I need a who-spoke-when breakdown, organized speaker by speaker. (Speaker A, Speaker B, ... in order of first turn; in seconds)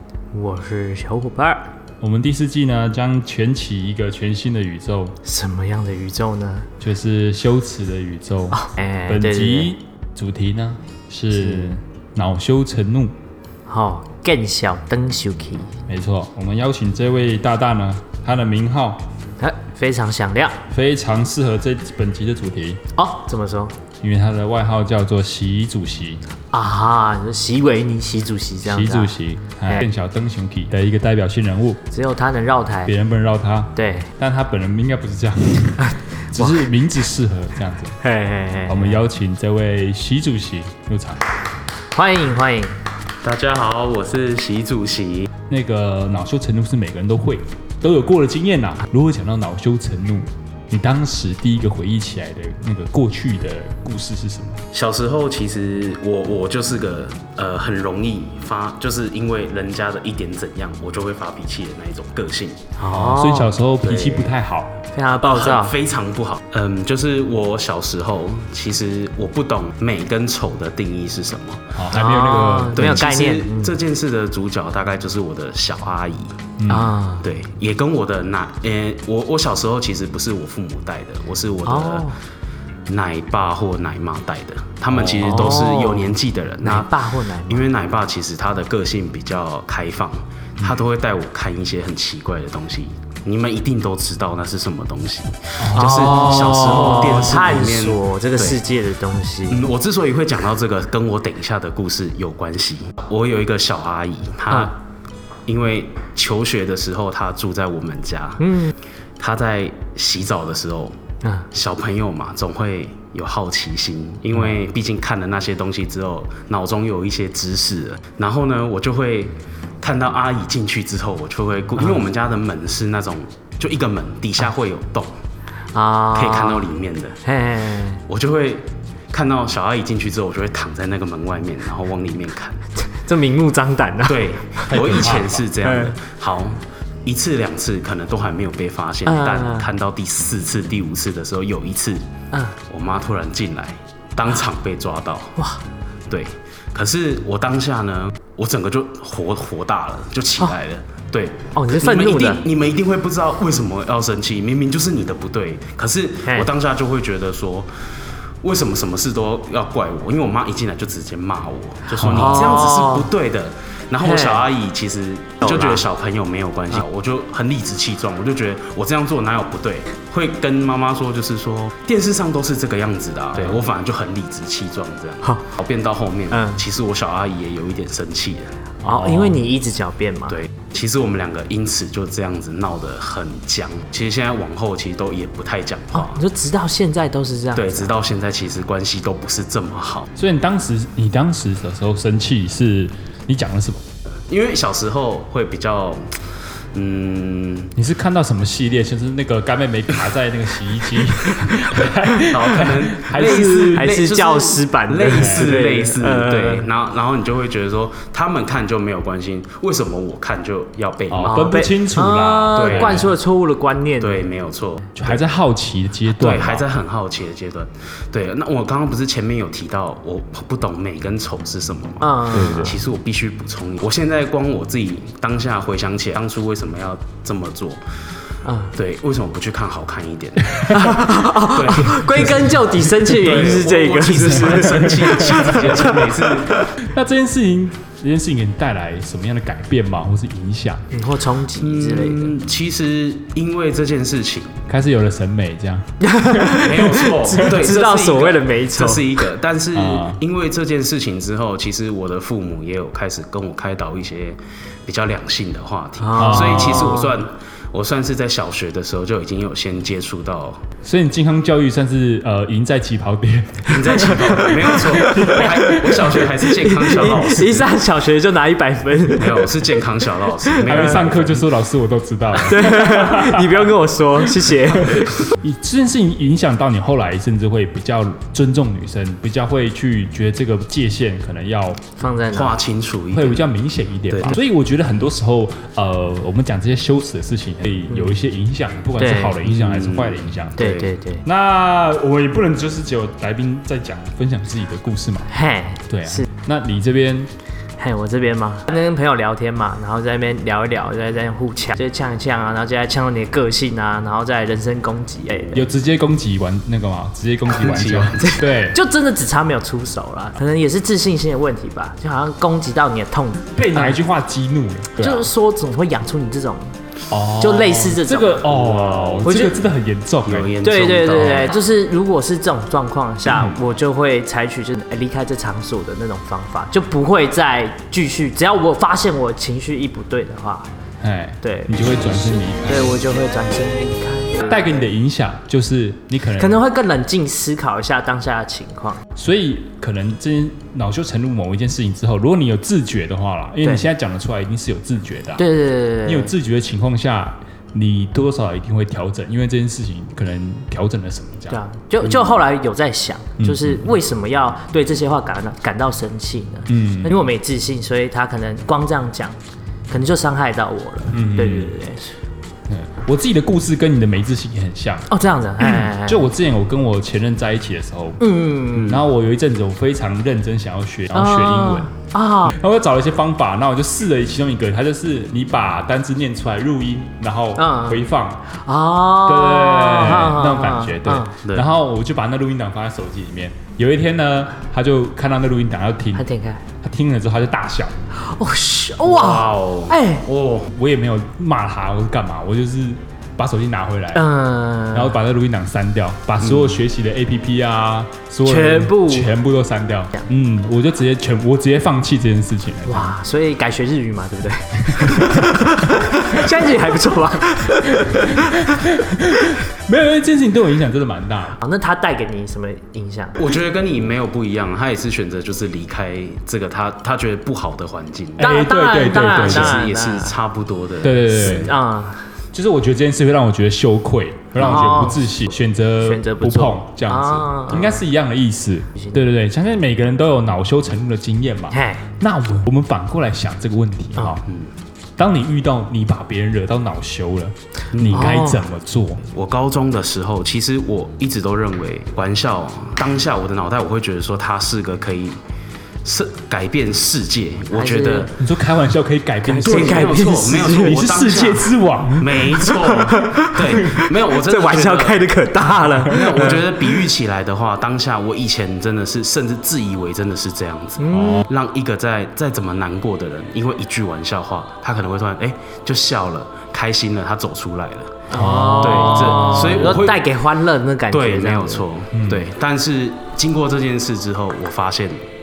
Speaker A: 0.3-1.7, 5.2-6.7, 8.5-9.7, 11.4-11.7, 13.7-15.7, 19.4-20.6, 22.9-23.7, 26.5-29.1, 31.9-32.9, 33.8-34.1, 35.8-36.7, 38.0-39.0, 41.9-42.7, 62.8-64.2, 64.9-65.7, 71.9-73.8, 76.7-77.2, 81.6-82.1, 85.2-87.7, 95.7-99.6, 108.4-108.7, 121.8-122.0, 125.7-126.7, 127.2-128.0, 132.9-135.9, 139.0-139.7, 151.5-152.4, 162.0-163.1, 164.0-164.5, 165.4-165.8, 176.3-176.6, 178.8-180.3, 185.9-187.9, 203.2-206.7, 211.2-214.2, 222.0-222.8, 228.4-228.7, 230.7-236.7, 240.9-242.3, 246.1-249.2, 256.0-257.1, 264.8-271.1, 272.3-275.1, 282.0-282.6, 287.9-288.2, 289.0-289.4, 290.6-291.2, 295.3-296.2, 297.8-305.7, 308.2-314.0, 314.9-316.7, 317.4-318.5, 319.2-319.6, 320.6-330.7, 331.4-334.7, 336.4-339.0, 345.4-346.3, 351.5-359.4, 359.9-362.1, 365.1-366.3, 368.2-369.0, 371.1-372.6, 377.6-378.0, 378.6-381.4, 386.1-386.6, 388.3-390.2, 394.1-395.2, 398.4-399.3, 402.9-408.6, 411.6-413.4, 418.4-420.4, 421.2-422.2, 424.6-425.4, 426.0-428.0, 431.7-432.0, 438.1-438.6, 447.7-448.3, 449.4-451.1, 452.6-457.0, 461.0-461.4, 468.3-471.8
Speaker B: 2.0-5.2, 6.8-13.1, 15.9-19.0, 20.7-22.8, 24.0-26.2, 28.6-31.8, 32.8-38.0, 38.7-41.2, 45.5-54.6, 62.9-64.7, 71.7-72.8, 76.6-76.9, 84.9-85.6, 90.6-90.8, 95.6-97.3, 134.7-135.4, 162.0-162.6, 173.3-173.6, 178.8-179.4, 190.2-193.8, 197.7-203.9, 205.1-205.4, 211.1-213.1, 214.9-216.6, 222.3-222.8, 234.3-235.9, 236.8-240.8, 244.7-246.9, 249.7-250.2, 256.1-256.9, 260.8-266.2, 270.6-273.7, 274.7-281.8, 283.1-290.6, 291.2-295.3, 295.9-297.3, 305.5-308.8, 313.5-315.3, 317.1-320.5, 331.0-333.0, 334.4-336.6, 339.1-345.4, 346.0-351.6, 353.4-353.8, 356.7-357.1, 361.1-361.8, 362.7-365.1, 365.6-368.2, 368.7-378.4, 379.2-386.2, 386.8-387.9, 390.7-394.2, 394.9-403.1, 408.0-411.6, 418.4-419.8, 421.0-421.7, 422.5-434.4, 435.2-439.2, 448.4-452.4, 461.1-461.4, 468.3-469.9, 472.1-472.4
Speaker C: 43.2-45.3, 54.7-62.6, 65.2-71.7, 72.7-76.4, 77.2-82.1, 82.9-86.9, 87.5-98.6, 99.5-104.7, 105.5-108.4, 109.2-111.0, 111.5-125.1, 126.1-127.2, 128.1-132.6, 134.1-142.0, 142.7-145.3, 146.1-157.7, 158.4-178.5, 180.3-186.2, 187.5-190.1, 194.3-197.7, 202.3-211.4, 212.5-213.1, 214.0-215.2, 216.1-227.8, 228.7-230.7, 231.4-232.5, 233.1-236.7, 241.6-244.6, 246.5-260.6, 263.7-267.7, 269.1-271.4, 282.3-283.5, 284.1-284.4, 289.4-290.9, 307.5-308.4, 318.5-319.5, 320.2-321.6, 352.0-352.3, 368.7-369.0, 381.4-381.7, 389.0-390.7, 396.4-396.8, 413.4-418.5, 419.0-421.7, 424.6-425.1, 434.4-434.7, 437.9-438.4, 439.3-445.4, 446.0-448.3, 449.6-455.3, 456.0-470.3, 471.1-475.2